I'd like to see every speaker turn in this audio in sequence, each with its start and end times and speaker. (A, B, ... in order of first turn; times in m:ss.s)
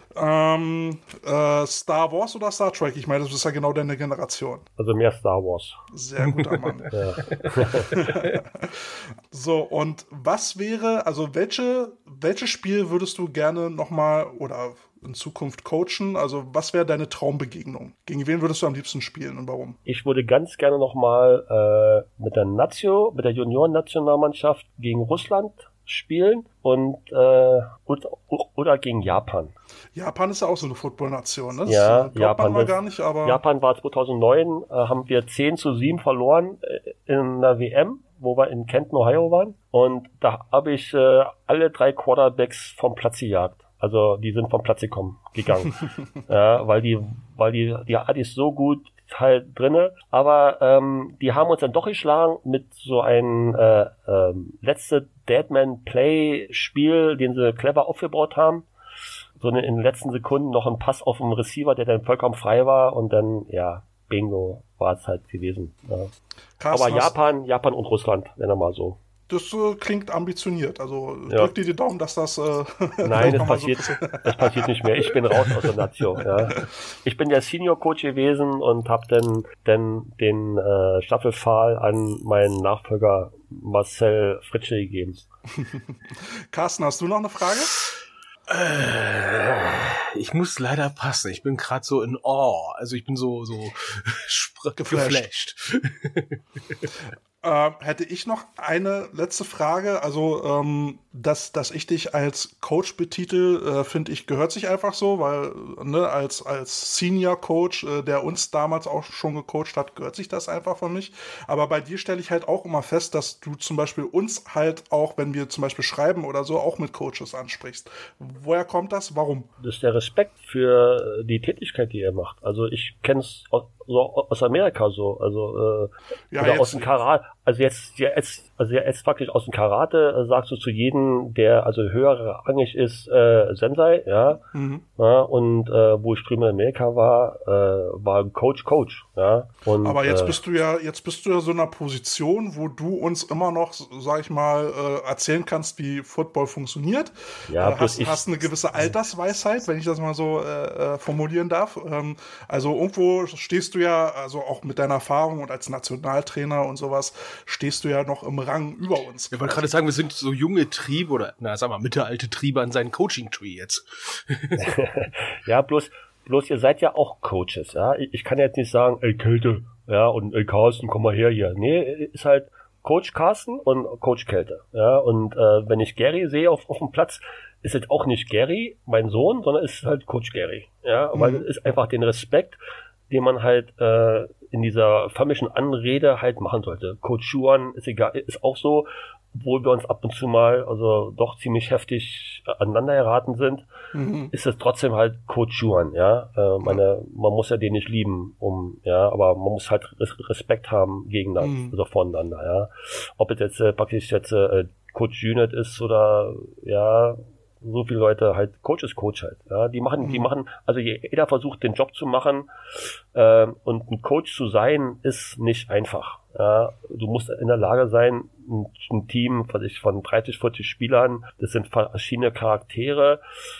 0:00.1-0:04.6 A
0:04.8-0:05.8 B
0:05.9-0:07.0 A
0:06.2-0:08.2 C
0:06.9-0:08.0 B
0:07.9-0:19.8 A
0:19.9-0:29.5 B
0:29.9-0:33.4 A
0:31.6-0:58.7 B
0:59.4-1:06.1 B
1:06.6-1:07.2 A
1:06.7-1:09.0 B
1:09.3-1:14.8 A
1:13.0-1:25.3 B
1:25.6-1:27.7 A
1:28.5-1:36.8 C
1:34.8-1:35.3 A
1:37.4-1:59.5 A
1:59.6-2:14.4 B
2:06.3-2:06.9 A
2:14.5-2:14.8 A
2:15.0-2:20.4 B
2:19.8-2:39.7 A
2:27.5-2:28.2 B
2:39.3-2:44.8 C
2:44.6-3:02.6 B
3:01.1-3:01.5 A
3:03.1-3:13.7 B
3:13.9-3:14.3 A
3:14.3-3:43.2 B
3:21.4-3:21.8 A
3:30.0-3:30.3 A